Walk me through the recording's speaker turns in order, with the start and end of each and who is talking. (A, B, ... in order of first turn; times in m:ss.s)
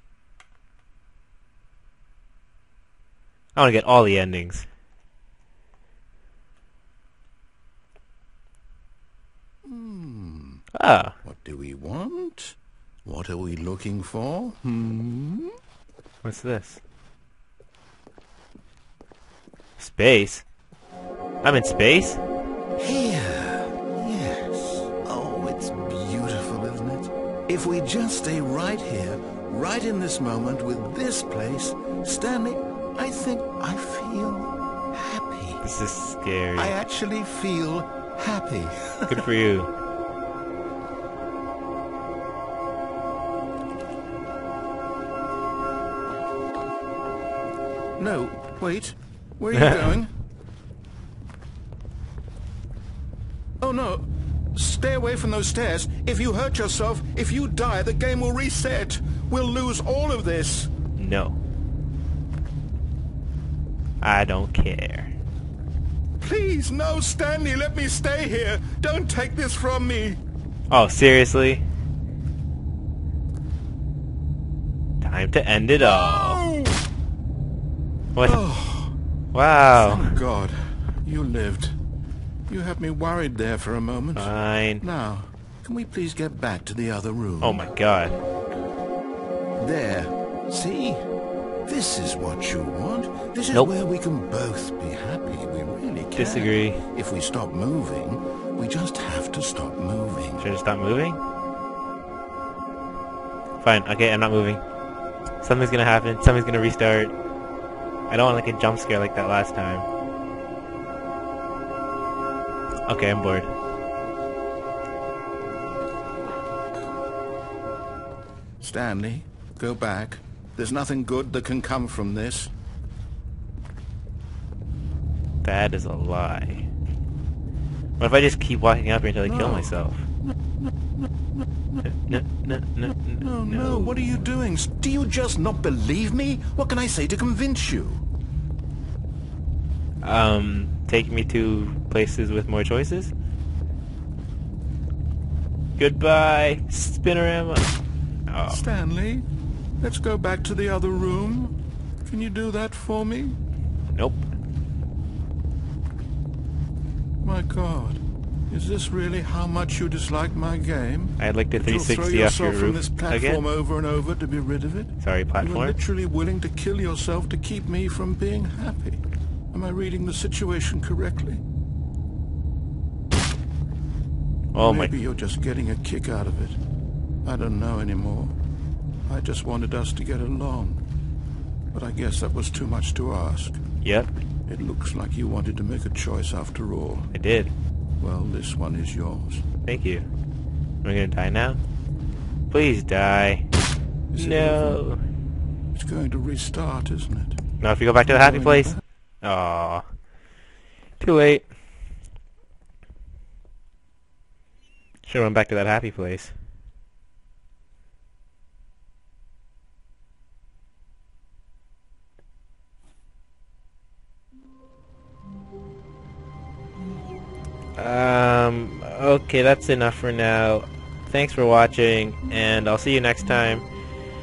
0:03.6-0:04.7 A
0:09.6-0:10.6 B
0:10.7-0:11.1 A
0:11.2-0:15.5 B
0:16.2-0:16.8 A
0:19.8-0:20.4 A
0:21.4-0:22.2 A
0:22.8-0:35.6 B
0:35.6-0:36.8 A
0:36.6-0:39.2 B
0:39.1-0:39.7 A
0:48.0-0:50.1 B
0:49.5-0:49.8 A
0:53.6-1:00.7 B
1:01.0-1:01.4 A
1:04.0-1:05.1 A
1:06.2-1:10.2 B
1:10.7-1:11.6 A
1:15.0-1:16.4 A
1:15.8-1:16.8 B
1:18.2-1:18.9 B
1:19.3-1:20.1 A
1:19.7-1:21.8 B
1:22.5-1:27.7 B
1:24.2-1:24.8 A
1:27.4-1:28.2 A
1:29.6-1:31.0 B
1:31.6-1:40.5 B
1:36.2-1:36.8 A
1:40.4-1:41.2 A
1:43.6-1:44.6 A
1:45.4-1:47.1 A
1:48.1-1:49.9 A
1:52.9-1:53.5 A
1:58.6-2:02.5 B
2:05.4-2:06.6 A
2:08.0-2:10.0 A
2:09.2-2:12.2 B
2:11.8-2:14.2 A
2:12.8-2:18.0 B
2:20.0-2:23.1 A
2:25.8-2:27.7 A
2:28.3-2:28.6 A
2:28.5-2:29.2 B
2:29.8-2:33.4 B
2:33.9-2:34.3 A
2:37.2-2:51.4 B
2:41.2-2:43.4 A
2:45.0-2:45.8 A
2:54.5-2:54.9 A
2:54.6-2:56.6 B
2:57.2-2:58.3 B
2:59.1-3:00.8 B
3:01.7-3:03.6 B
3:03.8-3:04.1 A
3:04.5-3:07.1 B
3:07.1-3:07.5 A
3:08.0-3:09.4 B
3:09.6-3:10.0 A
3:10.8-3:11.6 A
3:12.5-3:13.4 A
3:14.1-3:14.8 B
3:14.2-3:15.0 A
3:15.7-3:17.4 B
3:17.6-3:19.8 A
3:18.0-3:18.8 B
3:21.0-3:21.5 A
3:25.0-3:26.3 A
3:37.8-3:43.7 A